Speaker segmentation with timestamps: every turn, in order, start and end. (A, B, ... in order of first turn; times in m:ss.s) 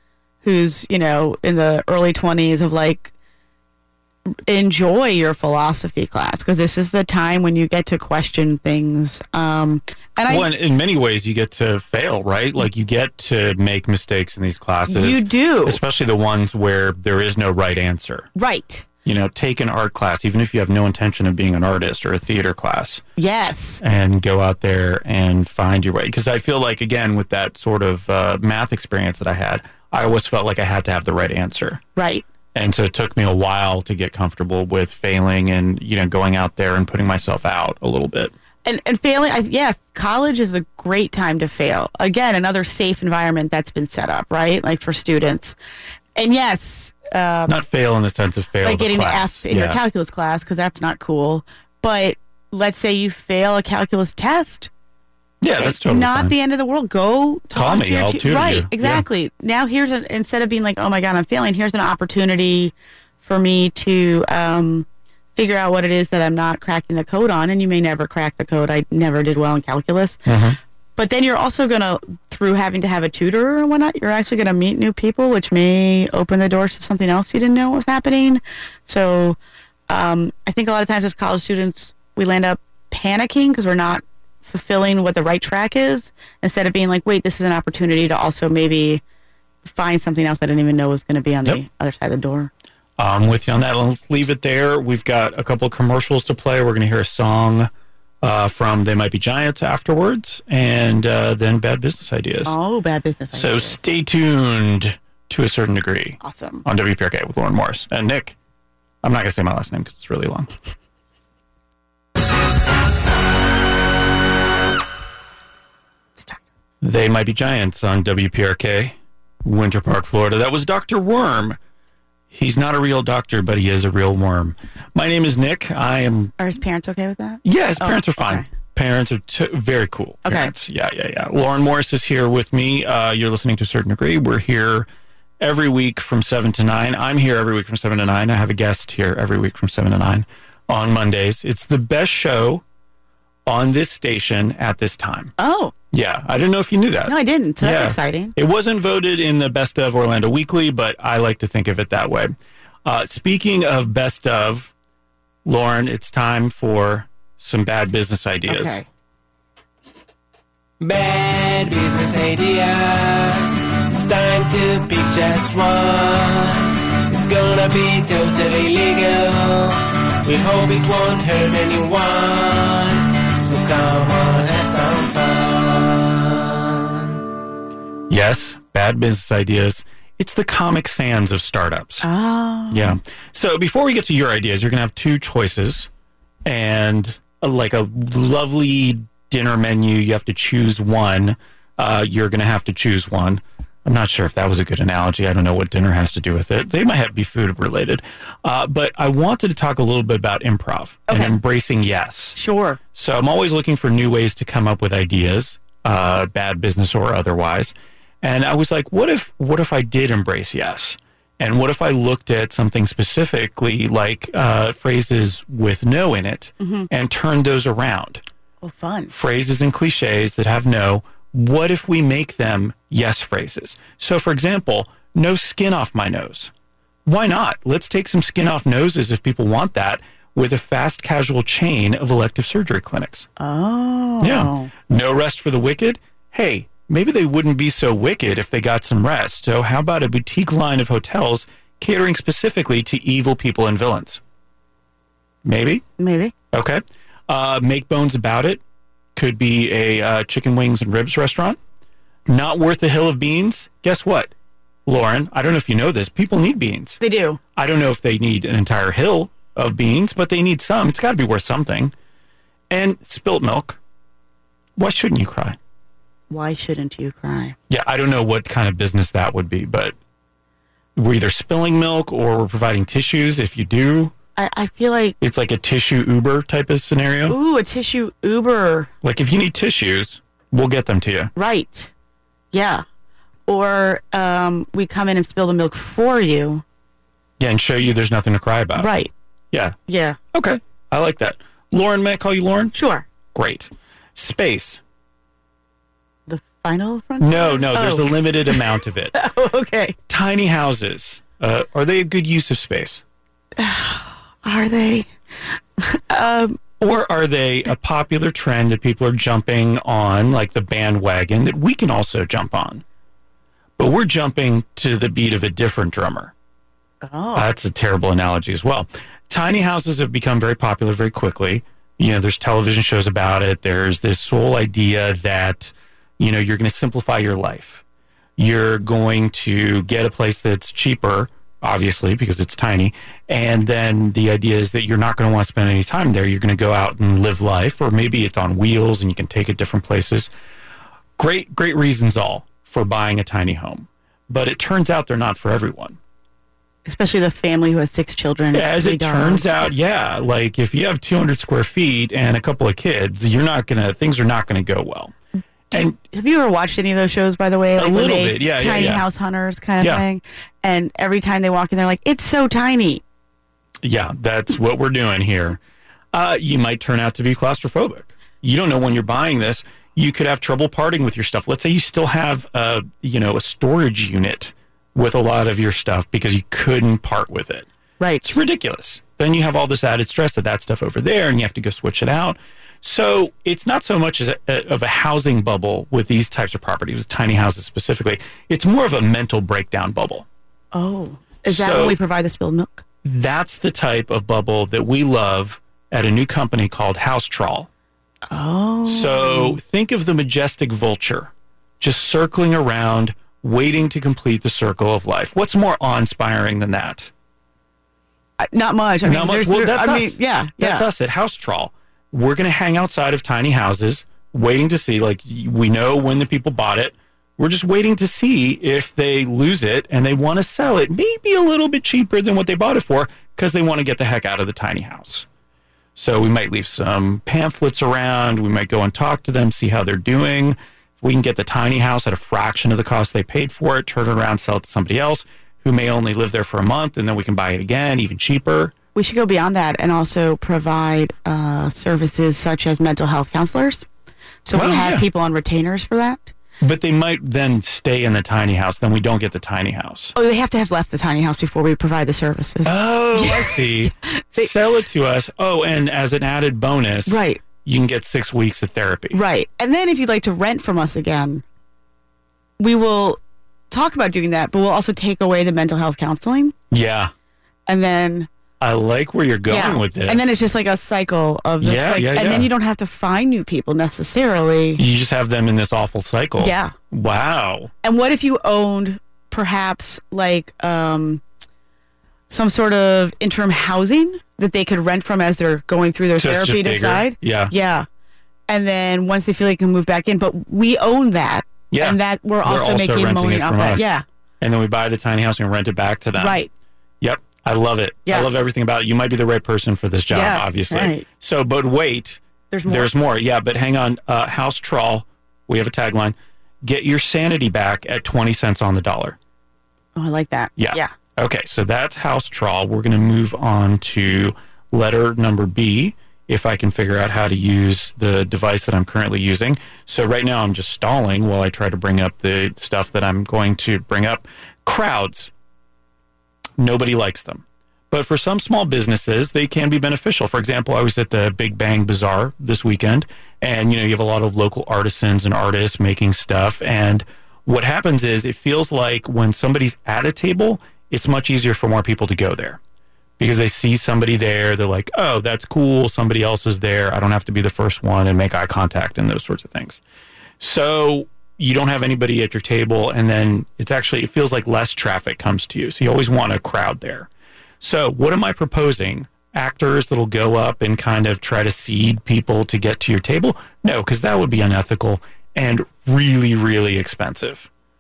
0:00.4-0:03.1 A
0:04.5-0:10.5 A
0:10.3-0:18.3 B
0:14.9-0:15.8 A
0:18.4-0:18.9 A
0:19.0-0:23.0 B
0:23.2-0:23.8 A
0:23.8-0:31.8 B
0:32.0-0:32.3 A
0:32.5-0:38.3 B
0:38.6-0:45.6 A
0:46.2-0:47.6 A
0:47.5-0:49.8 B
0:48.6-0:54.7 A
0:55.4-0:56.4 B
0:55.6-1:10.2 A
0:57.6-0:59.0 B
1:10.3-1:10.6 B
1:11.0-1:19.4 A
1:19.9-1:29.0 A
1:29.6-1:32.5 A
1:33.0-1:37.7 B
1:38.2-1:42.6 B
1:42.5-1:43.9 A
1:43.3-1:48.4 B
1:46.2-1:46.6 A
1:49.0-1:50.5 B
1:56.8-2:01.6 B
2:02.3-2:06.4 B
2:06.4-2:08.5 A
2:07.4-2:14.9 B
2:10.3-2:10.5 A
2:15.4-2:22.6 B
2:23.5-2:25.3 B
2:25.4-2:25.7 A
2:25.9-2:32.3 B
2:27.1-2:28.4 A
2:32.8-2:34.7 B
2:35.4-2:38.8 B
2:38.5-2:38.9 A
2:40.8-2:57.2 C
2:58.1-3:02.1 B
3:02.0-3:03.0 A
3:02.7-3:05.9 B
3:06.4-3:22.4 B
3:21.1-3:21.3 A
3:22.4-3:22.8 A
3:22.9-3:38.2 B
3:36.6-3:36.9 A
3:38.6-3:39.1 A
3:39.1-3:46.5 B
3:47.1-3:53.3 B
3:53.4-3:54.7 A
3:54.2-4:04.2 B
4:05.4-4:05.8 B
4:06.0-4:06.3 A
4:06.5-4:08.6 B
4:09.2-4:11.6 B
4:12.3-4:14.3 B
4:14.9-4:17.0 B
4:17.0-4:17.4 A
4:17.6-4:21.9 B
4:22.7-4:23.8 B
4:24.8-4:25.6 B
4:26.3-4:27.6 A
4:27.7-4:30.0 B
4:31.0-4:34.1 B
4:34.4-4:35.2 A
4:35.2-4:37.4 B
4:37.3-4:38.9 A
4:39.0-4:41.3 B
4:41.4-4:41.9 A
4:42.5-4:42.8 A
4:43.5-4:46.6 A
4:47.4-4:48.9 B
4:48.8-4:49.1 A
4:49.5-4:49.8 B
4:49.9-4:50.2 A
4:50.3-4:52.8 B
4:52.8-4:53.1 A
4:53.3-4:54.8 B
4:56.3-5:00.0 A
4:57.2-4:59.2 B
5:00.1-5:03.0 B
5:03.6-5:06.6 A
5:06.8-5:12.8 B
5:13.8-5:16.3 B
5:17.0-5:17.5 A
5:17.4-5:27.8 B
5:28.4-5:40.3 B
5:41.2-5:46.0 B
5:46.9-5:49.7 A
5:48.5-5:55.1 B
5:55.7-6:03.0 A
5:57.8-5:59.1 B
6:03.8-6:05.6 B
6:06.1-6:17.7 B
6:18.0-6:18.4 A
6:18.2-6:30.3 B
6:30.7-6:32.8 A
6:31.5-6:32.0 B
6:33.0-6:37.7 B
6:38.3-6:39.6 A
6:38.9-6:47.1 B
6:48.4-6:50.9 A
6:49.0-7:05.3 B
7:06.0-7:18.7 B
7:19.0-7:23.9 A
7:24.4-7:26.3 A
7:24.5-7:25.1 B
7:26.6-7:30.1 B
7:30.2-7:34.5 A
7:32.6-7:39.2 B
7:37.1-7:37.4 A
7:39.1-7:41.4 A
7:42.6-7:43.2 A
7:43.7-7:46.6 A
7:46.7-7:47.1 B
7:47.7-7:48.3 A
7:48.6-7:50.4 B
7:49.5-7:54.8 A
7:51.6-7:52.5 B
7:54.8-7:57.7 B
7:56.4-7:56.7 A
7:57.8-8:01.2 A
8:02.3-8:07.9 A
8:06.2-8:07.5 B
8:08.5-8:14.0 A
8:11.7-8:13.9 B
8:14.4-8:16.4 B
8:16.2-8:16.5 A
8:17.0-8:29.2 B
8:20.1-8:21.1 A
8:22.5-8:22.9 A
8:30.0-8:30.9 A
8:30.6-8:45.3 B
8:46.6-9:02.6 B
9:03.2-9:09.8 B
9:10.4-9:17.1 B
9:17.6-9:27.5 B